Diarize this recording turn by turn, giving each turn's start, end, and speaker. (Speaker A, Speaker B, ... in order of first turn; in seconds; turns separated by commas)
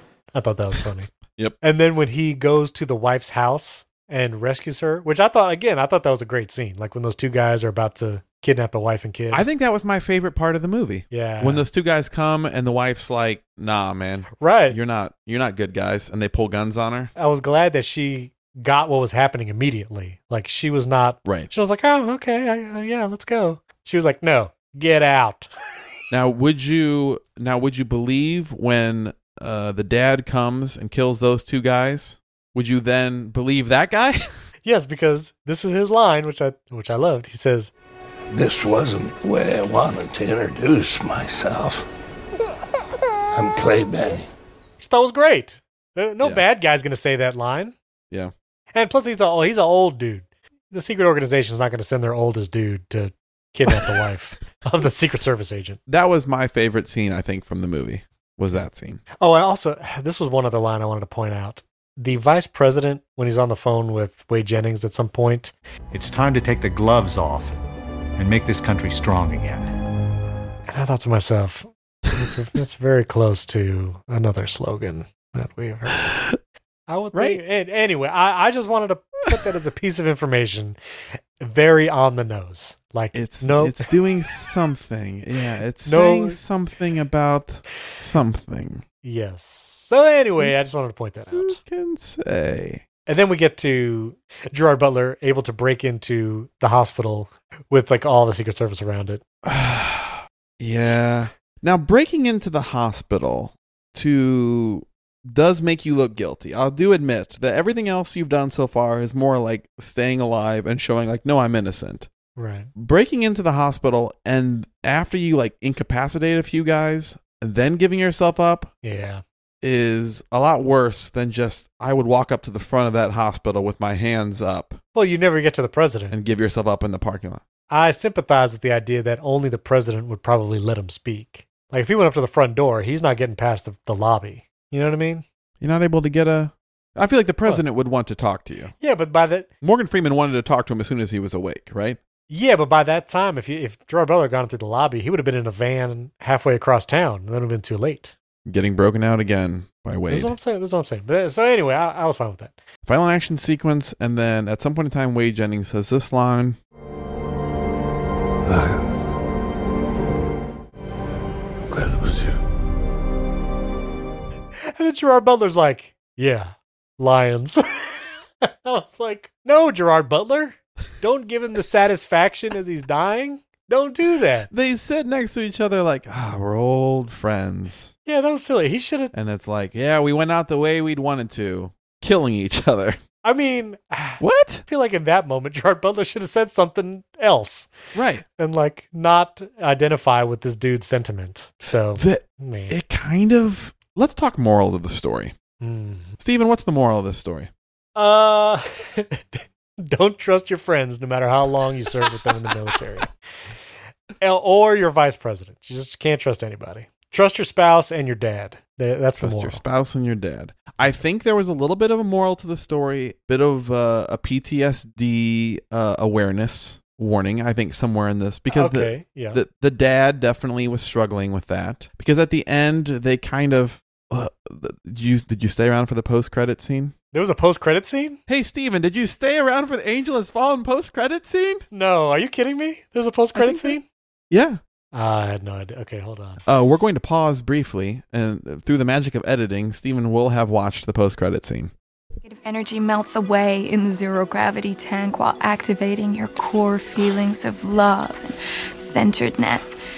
Speaker A: 0.3-1.1, Speaker A: 1.6-9.5, Speaker B: 9.3-17.1, Speaker A: 11.1-11.7, Speaker A: 14.4-14.8, Speaker A: 17.1-25.5, Speaker B: 21.2-21.5, Speaker B: 26.1-34.3, Speaker A: 34.6-37.7, Speaker C: 38.3-41.8, Speaker C: 43.3-44.2, Speaker A: 44.8-47.8, Speaker A: 48.7-55.8, Speaker B: 55.9-59.0, Speaker A: 59.2-65.5, Speaker D: 65.9-67.6, Speaker D: 68.2-69.7, Speaker A: 70.7-76.2, Speaker A: 76.9-83.9, Speaker B: 77.1-77.4, Speaker B: 83.1-88.8, Speaker A: 85.8-86.4, Speaker A: 89.0-91.6, Speaker B: 91.3-92.8, Speaker A: 93.1-99.2, Speaker B: 99.4-112.1, Speaker A: 112.4-112.7, Speaker B: 112.8-118.7, Speaker A: 118.8-119.2, Speaker B: 119.6-124.8, Speaker A: 125.0-126.2, Speaker B: 126.1-127.4, Speaker A: 127.7-135.2, Speaker B: 135.6-138.7, Speaker A: 138.8-139.5, Speaker B: 139.6-142.0, Speaker A: 142.3-148.1, Speaker B: 148.5-150.3, Speaker A: 150.1-152.6, Speaker B: 152.9-156.6, Speaker C: 158.5-158.7, Speaker C: 161.7-162.3, Speaker A: 164.6-174.5, Speaker B: 174.5-177.9, Speaker A: 178.1-179.1, Speaker B: 179.1-183.0, Speaker A: 183.2-187.7, Speaker B: 184.2-184.7, Speaker B: 187.9-188.2, Speaker A: 188.2-192.8, Speaker B: 192.0-195.3, Speaker A: 195.6-196.2, Speaker B: 196.2-197.5, Speaker A: 198.0-203.1, Speaker A: 204.2-209.6, Speaker B: 209.2-226.9, Speaker A: 218.5-219.4, Speaker A: 227.1-228.2, Speaker B: 228.3-231.7, Speaker A: 231.7-233.8, Speaker B: 233.3-233.8, Speaker B: 234.3-234.6, Speaker A: 234.9-236.4, Speaker B: 236.5-241.7, Speaker E: 242.2-249.8